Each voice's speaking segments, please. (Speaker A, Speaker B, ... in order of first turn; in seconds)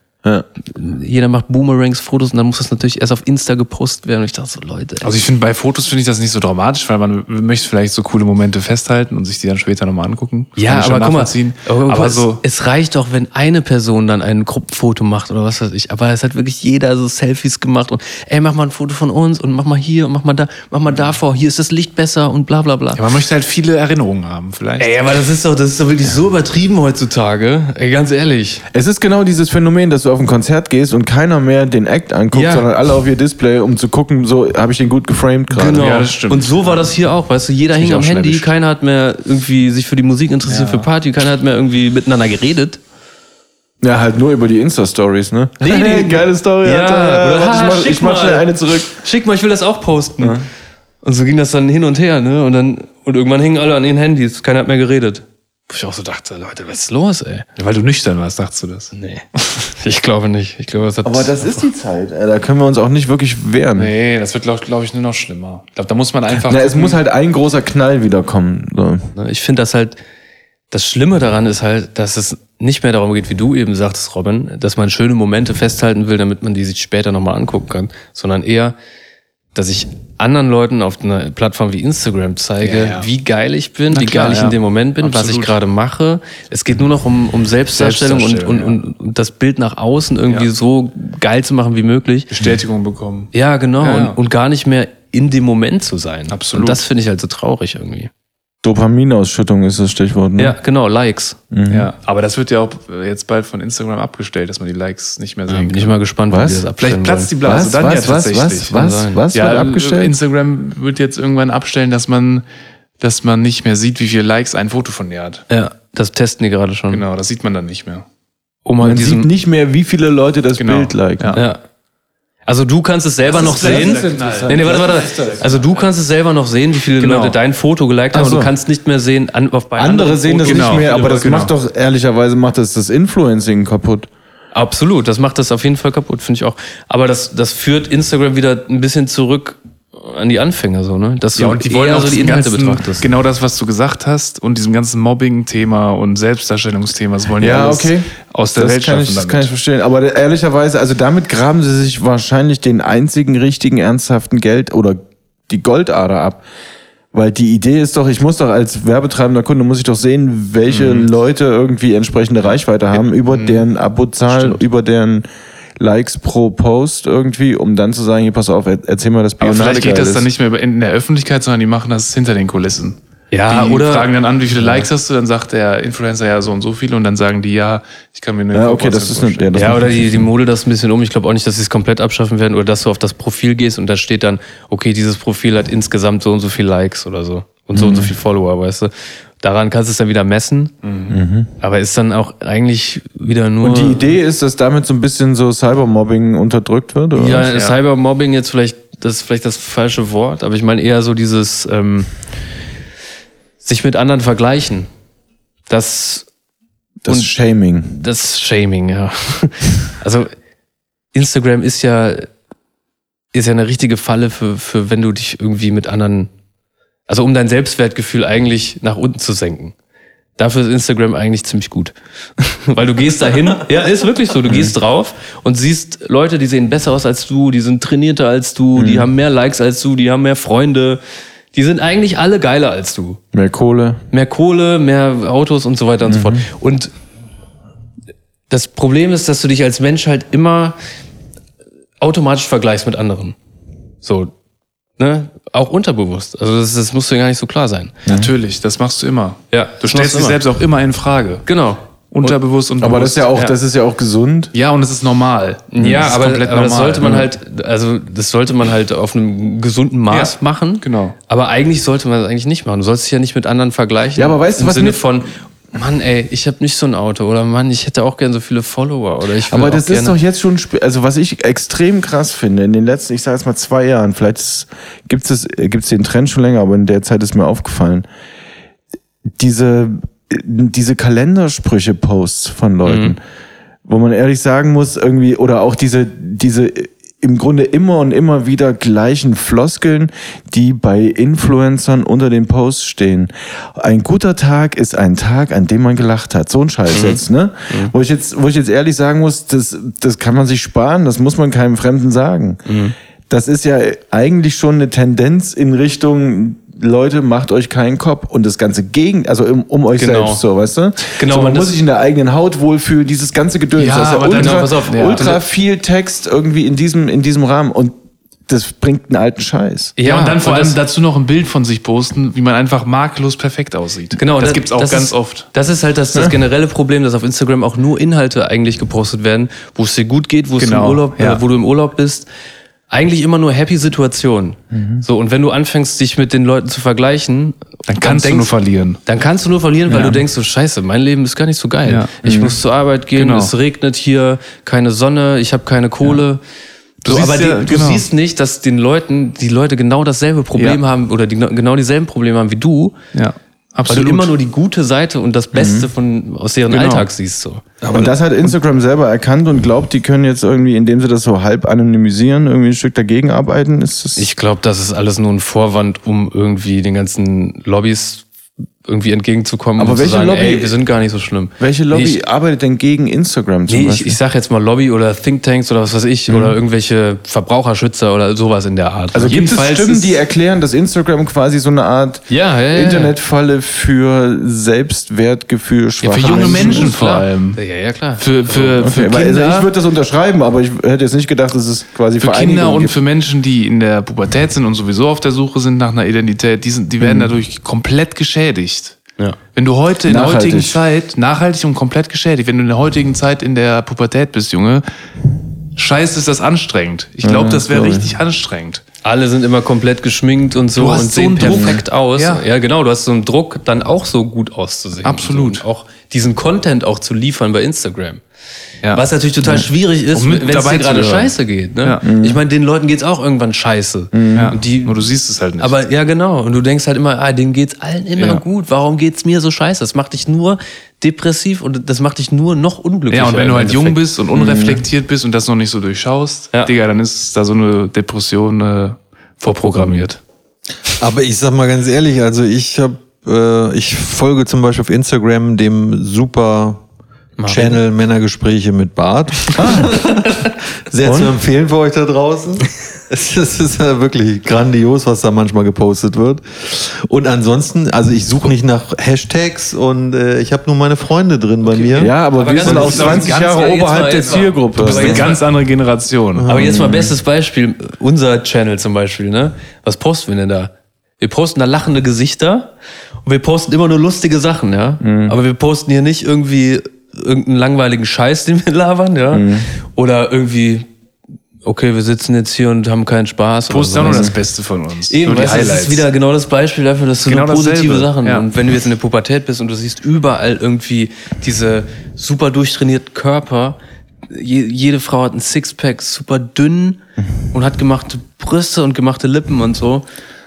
Speaker A: 0.7-5.1, 10.6-23.0, 24.8-28.6, 32.3-32.7, 35.5-42.8, 45.6-50.4, 51.0-57.5, 58.9-61.7, 69.2-70.0, 70.7-78.8, 79.5-92.3, 93.3-98.1, 100.4-101.4, 105.5-107.3, 108.7-109.2, 115.5-117.0, 118.7-119.3, 121.3-121.6, 122.5-131.1, 134.5-143.1, 173.3-174.9, 179.5-190.8, 191.6-194.1, 197.2-202.1, 203.6-204.9, 205.7-206.3, 207.1-210.3, 211.1-212.3, 213.3-216.3, 217.1-219.7, 220.4-231.0, 231.5-233.2, 234.1-236.9, 238.5-240.8, 242.0-243.3, 244.0-244.3, 245.0-248.0, 249.5-250.4, 251.5-252.3, 255.7-270.1, 282.9-283.1, 296.9-297.9, 302.7-302.9, 310.0-310.4, 311.1-311.8, 314.2-315.4, 320.0-320.8, 324.2-332.3, 332.9-338.5, 339.1-346.4, 347.1-353.0, 353.9-357.7, 364.2-368.3, 368.9-372.2, 373.7-380.1, 382.3-383.1, 386.2-388.3, 409.0-418.2, 418.9-425.1, 425.6-434.0, 439.4-440.2, 447.4-447.8, 451.0-451.4, 461.7-465.5, 466.5-472.7, 473.2-480.9, 481.6-484.4, 485.1-493.8, 494.3-500.1
Speaker B: 5.0-12.4, 22.9-24.9, 35.7-36.9, 40.5-40.9, 57.6-58.9, 63.8-67.0, 82.6-83.1, 83.9-85.6, 87.7-88.8, 92.3-94.2, 96.3-96.8, 101.7-106.0, 106.8-108.8, 109.3-112.5, 113.0-115.4, 116.9-118.1, 120.6-121.4, 123.3-125.6, 127.0-127.3, 130.4-131.5, 141.3-149.5, 160.7-161.1, 163.0-163.6, 169.4-179.8, 190.8-191.2, 197.4-197.7, 248.1-251.4, 252.1-253.3, 254.5-257.2, 260.1-261.2, 313.8-315.4, 320.0-325.5, 330.6-331.4, 337.9-339.0, 339.9-340.2, 341.9-342.1, 343.1-343.5, 347.0-348.1, 350.6-350.8, 353.1-354.3, 379.2-379.6, 386.0-387.6, 388.2-389.7, 392.2-399.0, 399.6-404.8, 405.8-408.8, 410.8-412.5, 415.0-415.6, 420.1-422.1, 424.4-425.7, 433.1-440.1, 462.5-466.5, 483.7-486.1, 487.2-488.5
Speaker C: 28.7-35.9, 37.8-38.5, 43.8-48.9, 50.2-50.5, 61.0-63.9, 66.3-69.1, 98.6-100.6, 101.5-101.9, 106.3-106.7, 107.4-110.1, 118.8-121.4, 123.3-125.4, 128.1-128.5, 129.8-134.1, 147.4-156.4, 157.1-165.3, 165.8-170.2, 178.5-180.3, 187.7-188.1, 191.1-191.5, 193.6-197.5, 207.0-208.0, 224.5-224.7, 228.8-229.1, 233.3-234.0, 236.1-236.4, 248.1-248.3, 252.8-254.5, 255.8-256.1, 257.0-257.3, 264.2-265.0, 269.5-278.1, 279.4-283.2, 283.9-302.6, 303.3-317.9, 318.5-320.7, 334.7-335.0, 342.2-342.6, 355.5-355.9, 356.7-357.1, 357.9-364.3, 369.8-370.7, 371.6-374.2, 376.3-376.6, 379.1-386.9, 388.6-392.9, 397.0-397.3, 400.1-400.8, 407.2-408.1, 411.4-411.8, 422.0-422.4, 424.1-424.6, 434.4-434.8, 449.6-449.9, 462.0-465.3, 466.5-467.1, 475.0-475.4, 479.3-479.7, 484.0-484.4
Speaker D: 440.9-446.8, 447.5-462.1, 466.4-466.7